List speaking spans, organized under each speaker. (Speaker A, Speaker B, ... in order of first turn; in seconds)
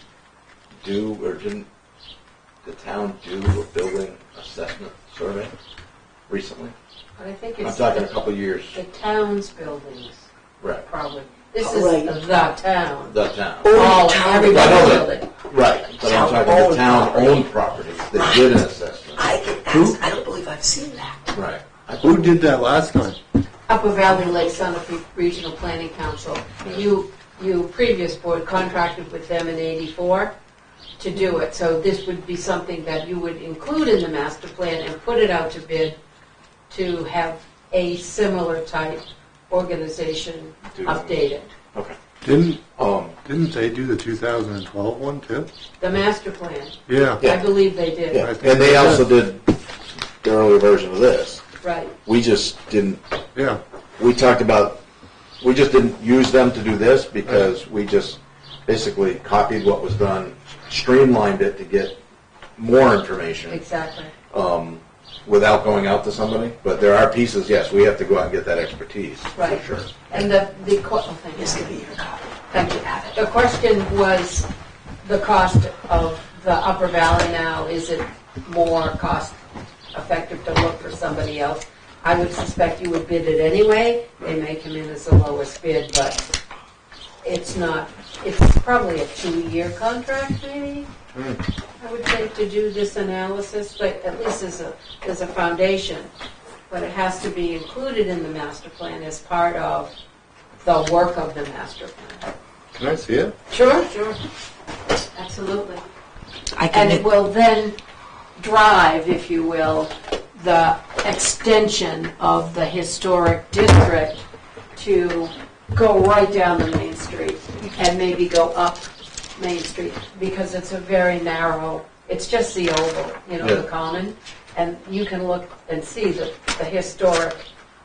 Speaker A: 0.8-1.7, 2.6-5.5, 6.3-6.7, 7.6-8.8, 10.6-10.8, 13.1-13.8, 14.5-20.0, 21.3-22.3, 31.1-31.4, 40.7-41.2, 42.8-43.2, 47.2-49.5, 50.2-51.4, 52.0-53.0, 54.0-54.8, 55.4-62.0, 62.6-63.6, 64.3-70.1
Speaker B: 7.2-8.1, 8.7-10.3, 10.8-13.2, 13.7-15.3, 23.7-30.3, 31.0-36.0, 36.7-41.5, 45.8-48.2, 51.6-51.9, 63.5-64.1, 69.4-71.8, 72.5-74.5, 75.0-79.4, 79.9-86.2, 87.2-90.9, 91.8-96.1, 96.7-99.9, 100.6-102.3, 103.5-104.2, 105.2-105.8, 106.7-107.8, 108.4-114.2, 114.8-127.5
Speaker C: 11.6-12.2, 13.6-15.1, 16.0-17.4, 18.1-18.4, 19.2-21.4, 71.4-72.3, 106.5-107.0
Speaker D: 22.0-23.2, 42.2-45.5, 46.9-47.2, 48.2-49.1, 53.4-53.6, 102.8-103.3